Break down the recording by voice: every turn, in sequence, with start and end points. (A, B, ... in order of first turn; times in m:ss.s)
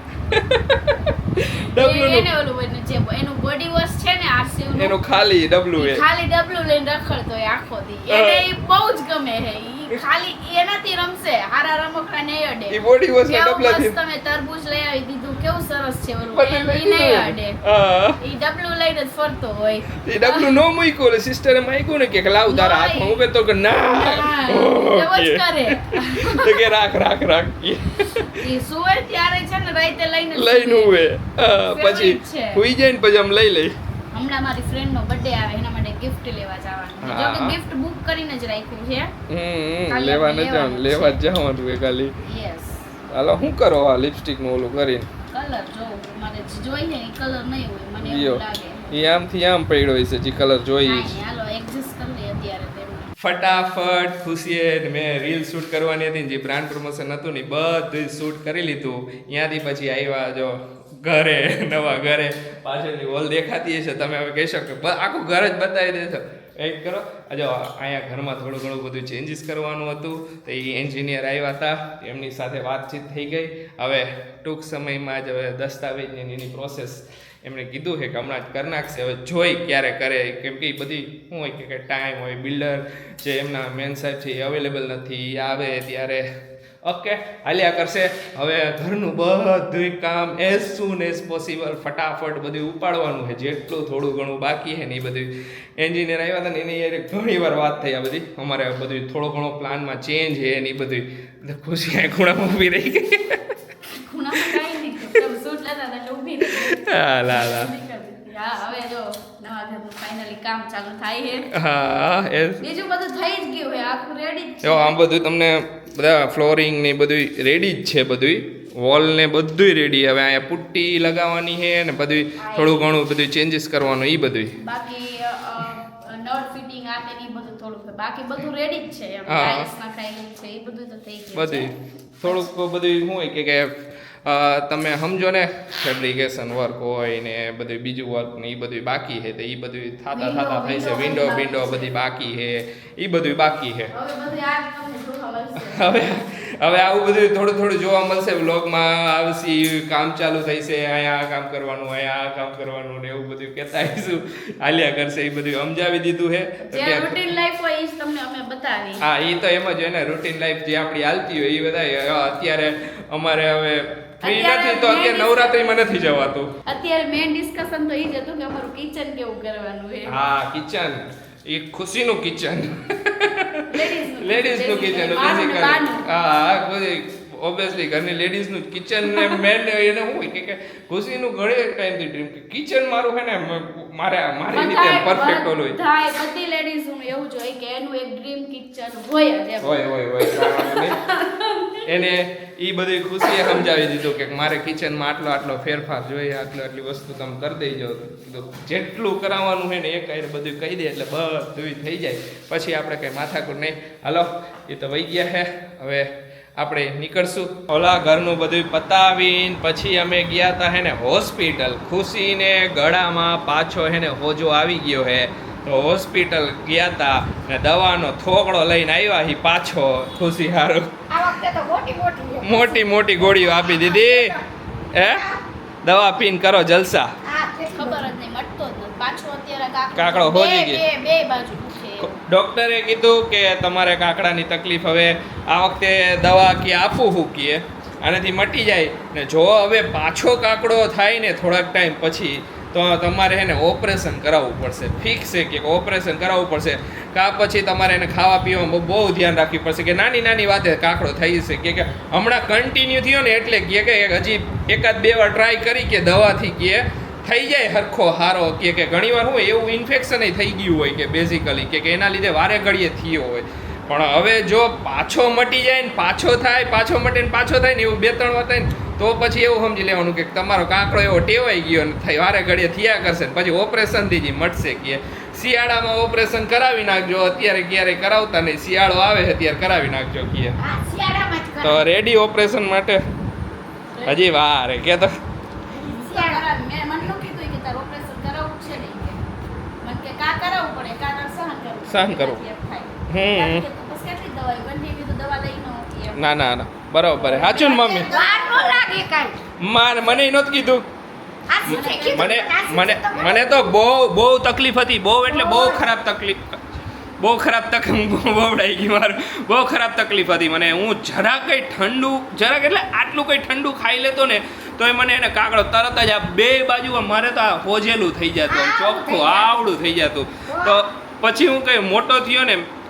0:00.3-0:02.3 A
0:01.8-0:05.0 B
0:04.8-0:06.0 A
0:05.8-0:17.6 B
0:08.1-0:08.4 A
0:12.7-0:14.0 A
0:16.3-0:18.2 A
0:18.2-0:20.6 B
0:20.1-0:28.5 A
0:22.5-0:23.2 B
0:23.8-0:26.7 B
0:28.2-0:31.0 B
0:30.3-0:33.7 A
0:31.7-0:32.6 B
0:34.1-0:39.1 B
0:37.0-0:37.6 A
0:39.3-0:42.1 A
0:39.9-0:41.2 B
0:42.2-0:42.9 B
0:43.1-0:45.1 A
0:45.3-0:49.0 B
0:48.0-0:51.2 A
0:50.8-0:53.1 B
0:53.2-1:26.3 A
1:26.8-1:43.4 A
1:43.9-1:51.5 B
1:46.4-1:47.7 A
1:51.5-1:52.6 A
1:52.6-1:55.0 B
1:54.6-2:04.6 A
2:02.4-2:02.9 B
2:04.6-2:11.7 B
2:09.3-2:09.7 A
2:11.3-2:23.9 A
2:20.1-2:21.9 B
2:23.9-2:26.1 B
2:25.6-2:37.3 A
2:36.6-2:39.0 B
2:39.0-2:46.5 A
2:44.2-2:45.8 B
2:46.7-2:50.2 B
2:50.1-2:53.7 A
2:53.7-2:56.1 B
2:54.2-3:05.8 A
2:59.0-2:59.4 B
3:04.5-3:11.8 B
3:09.6-3:11.0 A
3:11.9-3:40.9 A
3:13.2-3:13.7 B
3:41.1-3:44.4 C
3:42.4-3:44.4 A
3:44.9-3:45.3 A
3:45.0-3:45.4 C
3:45.8-3:47.1 A
3:47.2-3:48.1 C
3:47.7-3:52.2 B
3:50.0-3:50.8 A
3:52.0-4:40.6 A
4:40.6-4:41.8 C
4:41.6-4:43.0 A
4:43.9-4:44.2 B
4:44.0-4:45.1 A
4:45.7-4:46.4 C
4:45.8-4:49.2 B
4:49.8-4:56.2 B
4:51.9-4:52.4 A
4:53.1-4:53.6 A
4:56.2-4:58.1 A
4:57.2-4:58.9 B
4:58.0-4:59.4 C
4:59.6-5:00.9 A
5:01.5-5:03.7 C
5:01.7-5:06.6 A
5:01.7-5:02.5 B
5:05.3-5:05.9 C
5:07.2-5:22.7 A
5:18.5-5:19.8 C
5:20.5-5:20.8 C